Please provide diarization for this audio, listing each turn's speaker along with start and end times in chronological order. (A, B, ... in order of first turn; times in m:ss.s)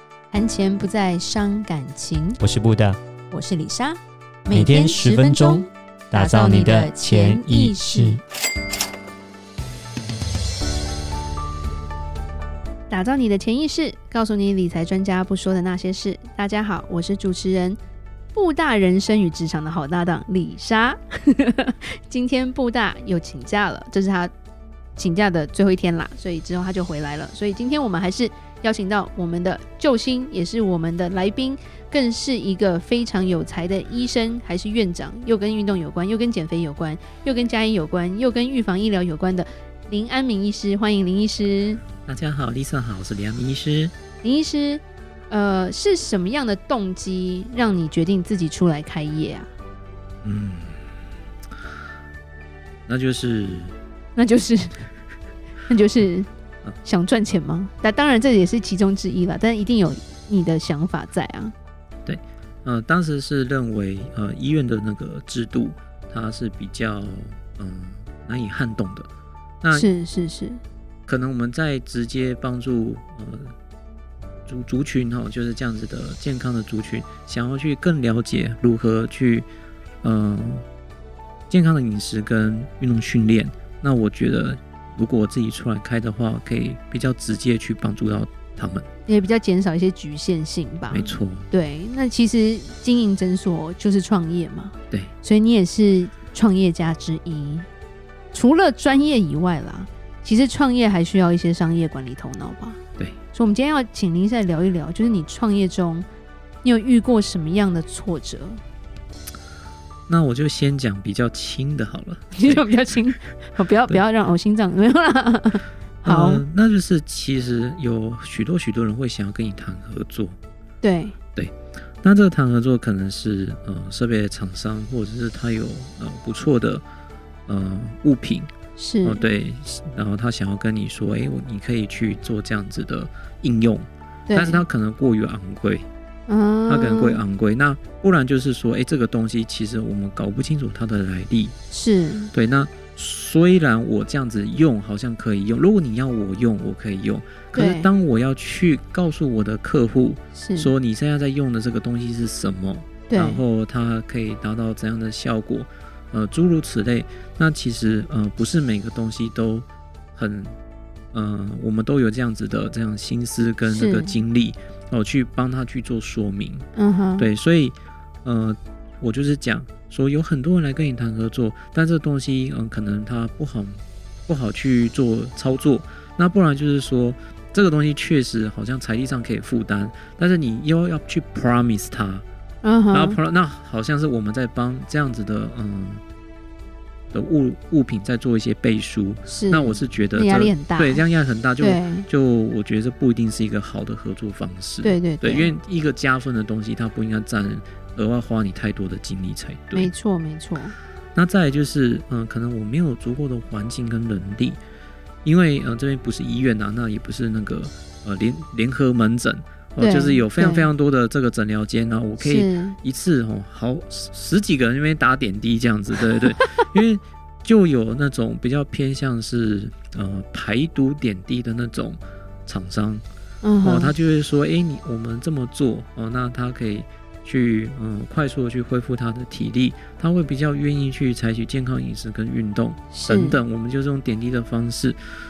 0:00.3-0:02.4 A
0:02.4-0:03.0 B
0:03.3-0:08.2 A
0:04.5-0:08.2 B
0:12.9-0:17.8 A
0:18.3-0:24.3 A
0:25.0-0:41.8 A
0:42.1-0:44.0 C
0:44.2-0:49.5 A
0:50.2-0:50.8 C
0:52.9-0:53.8 C
0:54.2-0:54.8 A
0:55.6-0:56.3 A
0:56.8-1:01.5 A
1:02.0-1:09.1 C
1:09.6-1:09.9 C
1:09.7-1:10.6 A
1:11.1-1:13.5 C
1:14.5-1:19.5 C
1:20.0-1:20.6 C
1:21.5-1:28.9 C
1:29.1-1:37.7 A
1:30.9-1:31.5 C
1:38.3-1:42.8 A
1:43.3-1:46.1 A
1:46.6-1:48.6 A
1:50.1-1:52.8 C
1:52.3-1:56.4 A
1:56.0-2:00.4 C
2:00.8-2:01.2 A
2:01.4-2:06.8 C
2:07.5-2:08.5 C
2:08.8-2:09.2 A
2:09.0-2:15.9 C
2:14.3-2:14.6 A
2:16.3-2:17.2 A
2:16.7-2:21.5 C
2:21.7-2:22.3 A
2:22.3-2:40.6 C
2:27.5-2:27.9 A
2:30.4-2:30.7 A
2:33.1-2:33.4 A
2:41.1-2:46.7 C
2:43.7-2:44.2 A
2:46.8-2:47.3 A
2:47.2-3:02.2 C
3:02.6-3:03.2 A
3:02.9-3:06.0 C
3:07.1-3:19.9 C
3:09.3-3:11.1 A
3:11.6-3:12.1 A
3:14.8-3:15.5 A
3:19.7-3:20.8 A
3:21.2-3:24.6 C
3:25.2-3:43.0 C
3:29.8-3:30.7 A
3:32.2-3:32.8 A
3:36.3-3:36.6 A
3:43.4-3:43.9 A
3:43.6-3:55.0 C
3:52.9-3:53.4 A